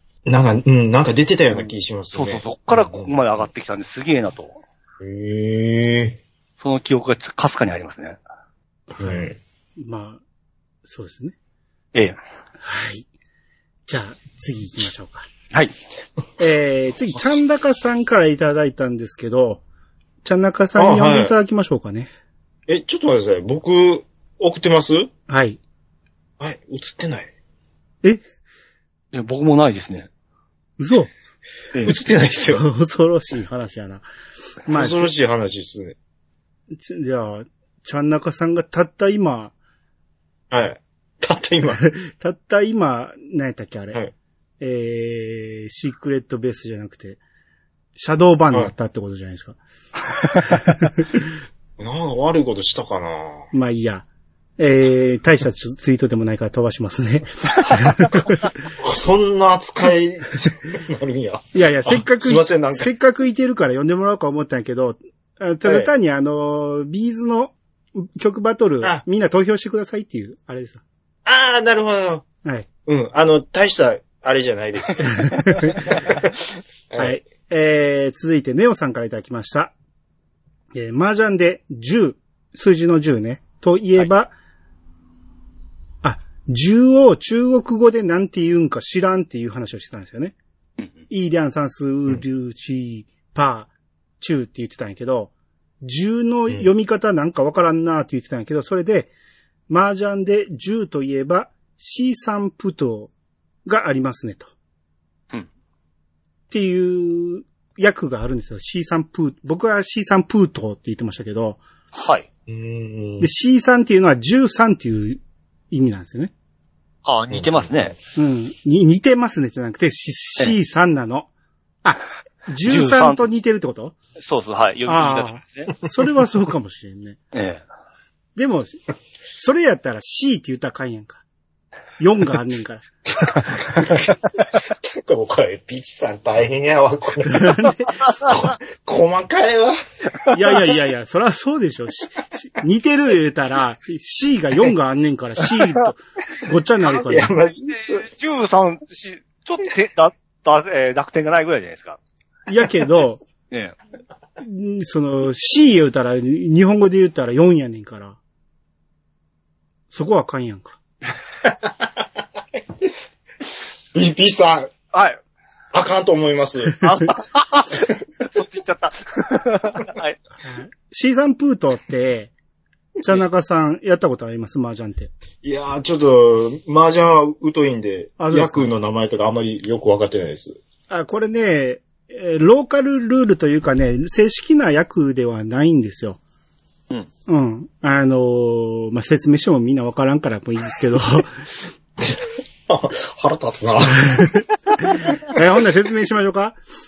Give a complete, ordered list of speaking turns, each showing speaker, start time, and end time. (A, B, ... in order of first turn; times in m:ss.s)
0:00.2-0:03.5 A
0:02.1-0:04.6 B
0:05.0-0:06.2 A
0:06.6-0:08.2 B
0:08.9-0:09.3 C
0:09.0-0:09.4 A
0:09.8-0:10.2 C
0:10.8-0:11.4 C
0:12.6-0:13.1 C
0:13.9-0:15.3 C
0:16.4-0:19.6 C
0:20.2-0:22.1 C
0:20.8-0:21.3 A
0:22.7-0:25.1 A
0:25.3-0:25.6 C
0:26.4-0:27.3 A
0:29.1-0:30.1 B
0:30.8-0:31.1 C
0:31.8-0:32.6 A
0:32.5-0:34.0 C
0:34.7-0:35.1 C
0:34.7-0:36.0 A
0:36.7-0:39.5 C
0:40.5-0:41.8 A
0:41.8-0:44.0 C
0:44.6-0:47.2 C
0:48.0-0:49.6 C
0:50.5-0:51.0 C
0:51.8-0:53.5 A
0:53.5-0:54.1 C
0:54.6-0:58.1 C
0:58.2-1:02.9 A
1:01.5-1:10.8 C
1:05.6-1:05.9 A
1:11.2-1:12.2 A
1:12.9-1:16.3 A
1:15.1-1:15.9 C
1:16.9-1:17.2 A
1:17.0-1:19.7 C
1:20.7-1:24.3 C
1:26.0-1:30.4 C
1:31.1-1:35.3 C
1:35.8-1:39.1 C
1:39.7-1:43.1 C
1:43.7-1:44.5 C
1:46.5-1:51.6 C
1:51.9-1:52.3 B
1:52.5-1:53.3 A
1:53.2-1:56.3 C
1:57.0-1:58.0 B
1:57.3-1:57.9 A
1:58.2-2:01.3 C
2:01.8-2:03.9 C
2:02.6-2:03.3 B
2:04.2-2:05.7 B
2:04.9-2:07.2 C
2:07.3-2:07.6 B
2:08.4-2:08.8 C
2:09.4-2:11.2 C
2:12.0-2:12.8 C
2:13.7-2:19.8 A
2:17.3-2:17.9 C
2:20.3-2:27.3 C
2:26.8-2:28.1 A
2:27.7-2:32.0 B
2:32.5-2:33.2 C
2:33.5-2:33.8 B
2:34.4-2:38.2 C
2:39.9-2:40.8 C
2:41.4-2:42.9 A
2:43.9-2:44.7 A
2:44.9-2:45.2 B
2:45.7-2:46.8 A
2:46.8-2:50.2 B
2:50.4-2:52.3 C
2:53.0-2:55.1 C
2:55.4-3:00.6 A
2:58.2-2:58.7 C
3:00.9-3:06.2 C
3:07.3-3:11.4 C
3:12.0-3:14.4 A
3:15.0-3:16.6 C